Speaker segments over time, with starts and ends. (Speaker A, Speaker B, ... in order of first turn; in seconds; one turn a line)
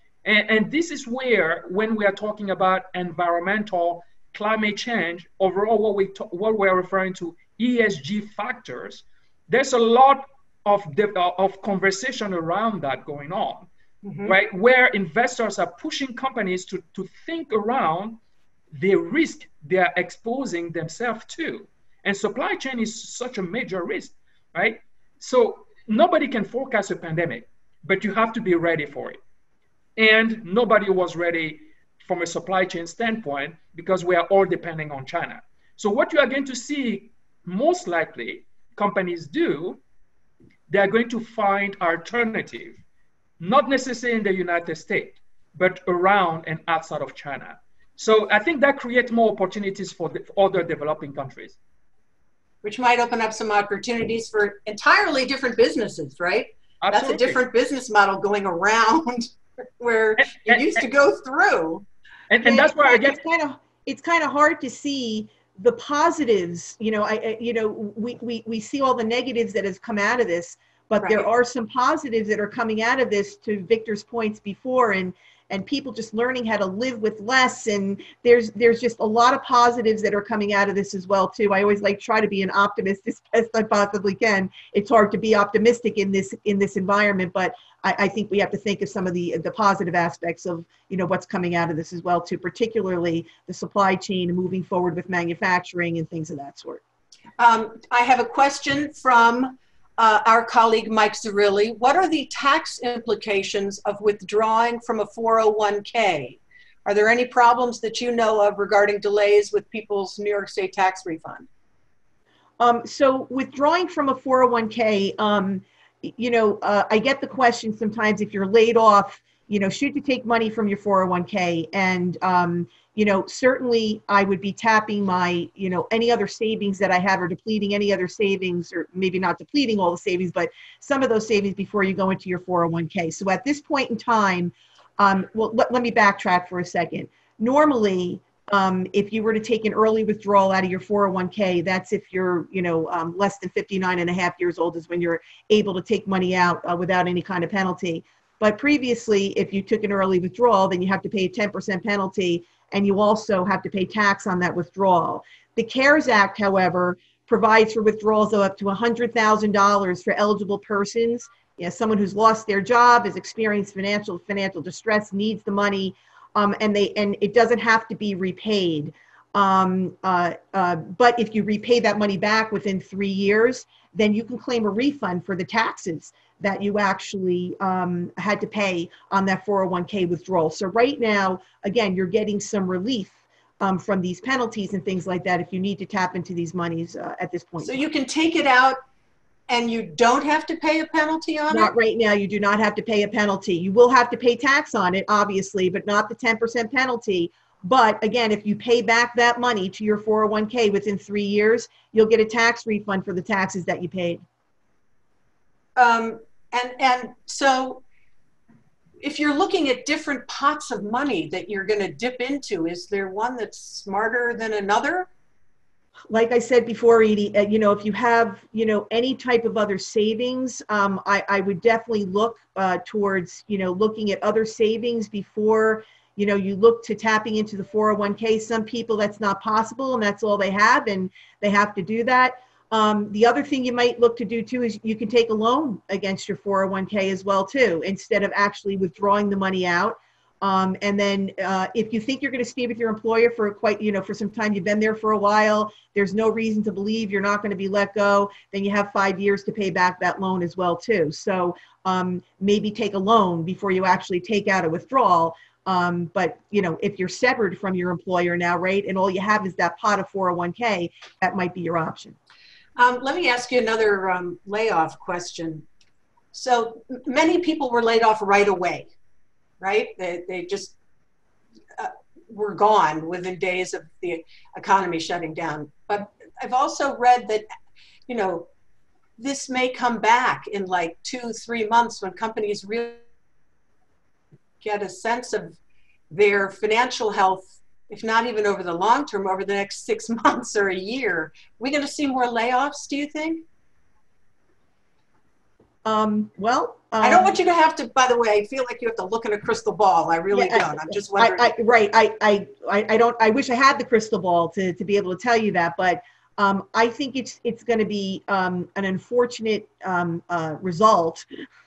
Speaker A: 0.2-13.7
Speaker B: 14.0-14.3
Speaker A: 14.2-18.2
Speaker A: 18.7-29.2
Speaker A: 30.0-39.8
Speaker A: 40.7-42.8
Speaker A: 43.4-51.6
Speaker B: 52.6-59.3
Speaker A: 56.8-57.4
Speaker B: 59.8-61.9
Speaker A: 60.2-60.8
Speaker A: 62.3-63.2
Speaker C: 62.4-96.8
Speaker B: 97.4-111.5
Speaker C: 112.6-187.8
Speaker B: 187.6-188.8
Speaker B: 189.5-191.7
Speaker C: 191.5-204.2
Speaker B: 205.8-207.8
Speaker B: 209.0-215.1
Speaker C: 216.1-262.2
Speaker B: 262.8-265.6
Speaker B: 266.3-268.9
Speaker B: 269.6-270.8
Speaker B: 271.8-277.5
Speaker B: 278.1-278.5
Speaker B: 279.2-283.0
Speaker B: 284.6-285.6
Speaker B: 286.1-293.4
Speaker C: 295.9-297.4
Speaker B: 297.0-301.5
Speaker C: 300.3-311.3